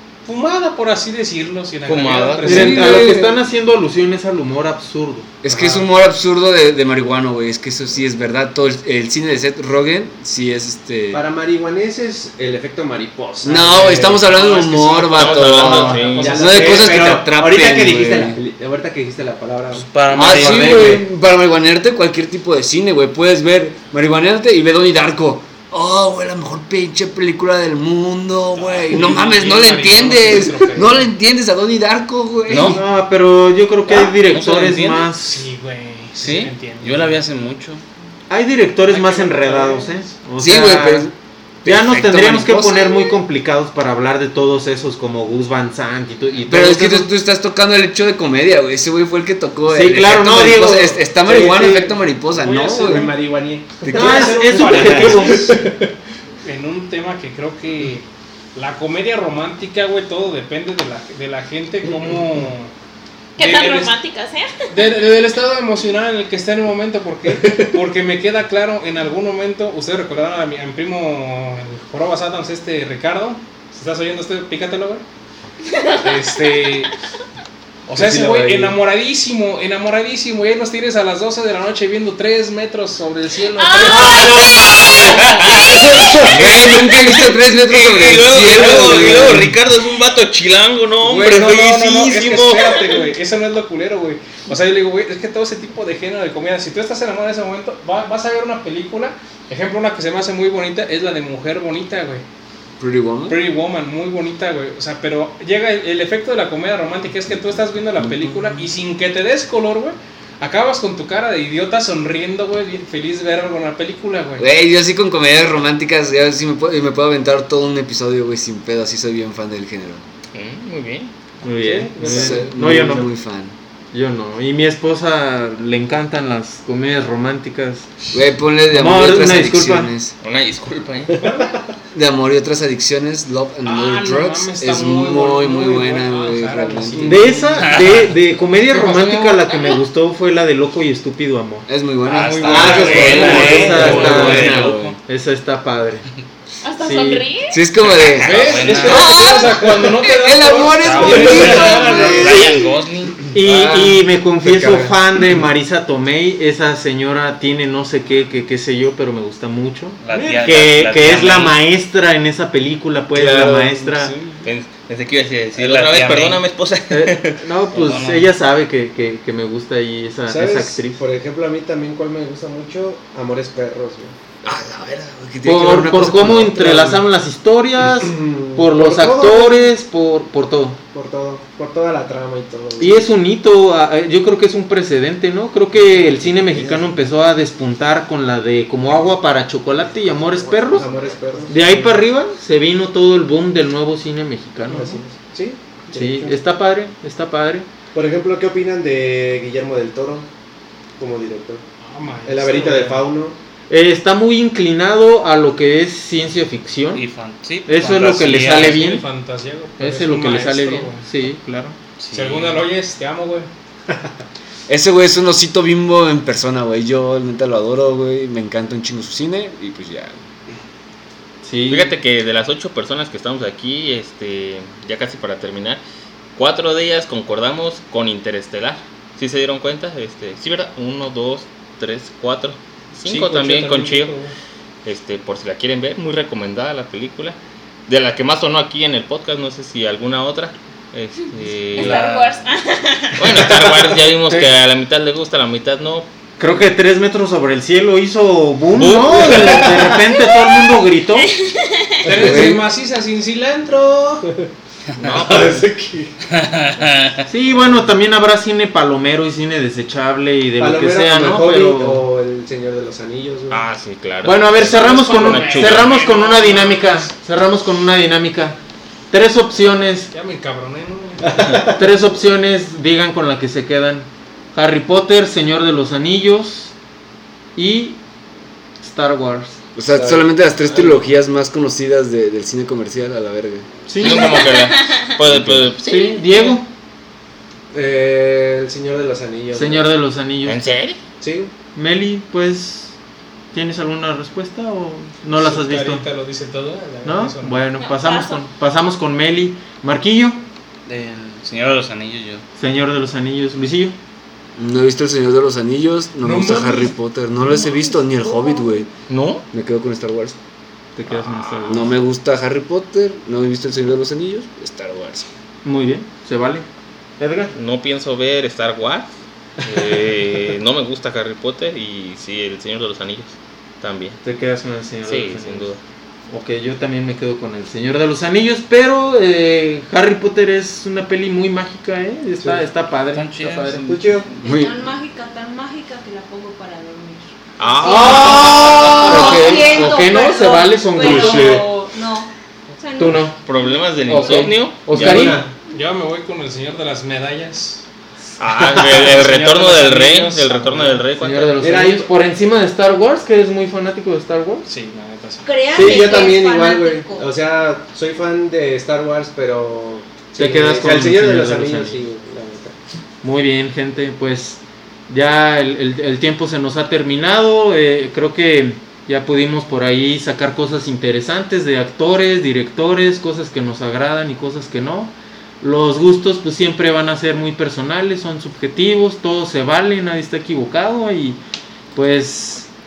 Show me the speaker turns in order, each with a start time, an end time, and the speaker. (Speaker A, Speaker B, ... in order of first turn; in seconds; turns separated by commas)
Speaker A: 0.2-3.1, Speaker B: 1.9-3.0, Speaker C: 2.4-3.4, Speaker D: 2.5-5.3, Speaker C: 5.4-11.2, Speaker E: 5.5-5.9, Speaker E: 11.1-21.0, Speaker C: 13.4-18.4, Speaker A: 14.8-16.9, Speaker B: 15.1-16.4, Speaker F: 19.7-21.0, Speaker C: 20.1-32.8, Speaker A: 28.6-31.1, Speaker F: 32.5-32.8, Speaker D: 32.6-35.4, Speaker F: 33.9-35.1, Speaker A: 35.1-37.2, Speaker F: 36.1-37.8, Speaker D: 38.3-41.1, Speaker A: 38.9-40.0, Speaker C: 40.4-43.0, Speaker D: 41.6-47.1, Speaker C: 46.5-53.1, Speaker D: 49.7-51.5, Speaker E: 51.3-55.9, Speaker A: 52.3-53.2, Speaker C: 53.8-54.6, Speaker A: 53.9-55.6, Speaker D: 53.9-55.6, Speaker A: 56.4-62.7, Speaker G: 63.4-64.7, Speaker A: 63.4-63.9, Speaker A: 64.7-75.0, Speaker E: 67.3-67.8, Speaker G: 75.8-76.0, Speaker A: 76.0-76.9, Speaker A: 77.9-84.4, Speaker E: 77.9-78.8, Speaker G: 83.5-85.9, Speaker E: 83.8-85.3, Speaker B: 85.4-92.8, Speaker C: 85.5-89.6, Speaker A: 91.0-102.2, Speaker G: 92.7-93.0, Speaker C: 102.8-103.4, Speaker A: 103.3-114.5, Speaker C: 108.0-108.7, Speaker C: 114.4-120.0, Speaker B: 120.3-121.1, Speaker D: 121.4-123.1, Speaker E: 121.6-122.9, Speaker C: 122.0-123.5, Speaker D: 123.9-127.9, Speaker C: 128.1-130.1, Speaker D: 128.7-129.9, Speaker B: 130.2-131.3, Speaker A: 131.2-131.5, Speaker C: 131.9-137.3, Speaker A: 133.6-137.8, Speaker D: 136.9-141.7, Speaker F: 137.6-138.1, Speaker G: 138.9-139.8, Speaker C: 141.7-145.0, Speaker A: 142.1-144.6, Speaker F: 142.1-145.0, Speaker E: 142.4-144.4, Speaker D: 142.6-146.1, Speaker G: 146.6-147.6, Speaker D: 146.8-147.3, Speaker C: 147.5-152.6, Speaker F: 147.9-149.2, Speaker A: 148.1-151.8, Speaker G: 148.9-150.2, Speaker G: 150.9-151.1, Speaker E: 150.9-152.7, Speaker F: 151.1-153.2, Speaker D: 153.3-164.1, Speaker C: 153.4-154.9, Speaker F: 160.0-161.6, Speaker C: 163.1-164.2, Speaker B: 164.4-167.4, Speaker F: 165.6-166.4, Speaker D: 166.9-171.0, Speaker F: 167.7-168.3, Speaker E: 170.3-174.1, Speaker C: 174.4-177.1, Speaker D: 175.4-180.8, Speaker E: 177.9-179.7, Speaker E: 180.9-183.1, Speaker D: 182.8-190.9, Speaker E: 186.2-186.8, Speaker E: 190.0-192.0, Speaker D: 191.5-195.0, Speaker E: 194.7-196.4, Speaker D: 195.9-197.7, Speaker E: 197.9-200.3, Speaker E: 201.0-201.6, Speaker A: 201.8-203.1, Speaker E: 202.2-203.4, Speaker D: 203.7-207.0, Speaker F: 206.9-208.8, Speaker D: 207.7-209.1, Speaker A: 208.3-211.1, Speaker D: 209.8-211.8, Speaker F: 212.0-212.6, Speaker A: 212.1-213.5, Speaker C: 214.7-220.2, Speaker D: 221.4-221.9, Speaker B: 221.7-225.8, Speaker B: 226.4-234.1, Speaker A: 233.0-234.3, Speaker B: 234.8-237.4, Speaker B: 237.9-242.1, Speaker G: 241.7-243.4, Speaker F: 241.8-242.4, Speaker B: 243.2-246.1, Speaker D: 246.4-251.3, Speaker B: 248.8-249.8, Speaker G: 251.2-252.2, Speaker A: 252.0-254.3, Speaker E: 252.1-252.5, Speaker C: 252.1-252.6, Speaker B: 255.0-255.7, Speaker E: 255.0-256.1, Speaker F: 256.3-257.2, Speaker D: 257.3-262.1, Speaker E: 260.6-263.6, Speaker B: 263.5-265.9, Speaker D: 264.2-268.6, Speaker A: 264.7-267.1, Speaker D: 269.1-270.1, Speaker A: 270.1-271.6, Speaker E: 271.2-271.8, Speaker D: 271.7-276.7, Speaker D: 277.6-278.0, Speaker D: 278.8-279.6, Speaker C: 279.8-283.7, Speaker E: 279.9-281.0, Speaker D: 283.9-284.4, Speaker B: 284.0-286.2, Speaker G: 284.0-285.1, Speaker C: 285.2-285.7, Speaker D: 285.9-286.7, Speaker G: 285.9-286.6, Speaker E: 287.7-289.9, Speaker D: 289.5-290.6, Speaker B: 290.4-291.0, Speaker E: 291.2-291.5, Speaker D: 291.8-293.0, Speaker D: 293.5-296.1, Speaker A: 295.3-297.6, Speaker D: 297.0-300.4, Speaker G: 297.8-298.5, Speaker F: 300.9-302.4, Speaker D: 302.6-304.0, Speaker C: 304.6-308.9, Speaker A: 306.2-306.9, Speaker B: 309.1-309.4, Speaker C: 309.5-310.4, Speaker D: 311.0-311.9, Speaker B: 311.1-311.9, Speaker C: 311.7-315.3, Speaker D: 315.6-316.6, Speaker D: 317.2-317.5, Speaker B: 317.5-319.1, Speaker B: 319.6-324.2, Speaker D: 324.2-325.7, Speaker B: 325.1-325.8, Speaker D: 326.3-334.1, Speaker F: 333.1-333.8, Speaker E: 333.8-334.3, Speaker H: 334.4-344.4, Speaker C: 334.4-334.8, Speaker B: 337.6-339.3, Speaker D: 337.8-341.6, Speaker E: 338.2-339.4, Speaker E: 341.0-341.7, Speaker D: 343.0-343.4, Speaker B: 343.4-345.3, Speaker D: 344.1-345.4, Speaker E: 344.9-345.5, Speaker A: 345.0-347.9, Speaker B: 348.4-351.5, Speaker A: 348.6-351.1, Speaker D: 351.2-354.7, Speaker E: 351.6-352.1, Speaker A: 354.6-355.5, Speaker H: 355.4-357.3, Speaker E: 355.7-362.8, Speaker D: 360.4-362.0, Speaker D: 363.2-381.4, Speaker D: 381.9-382.7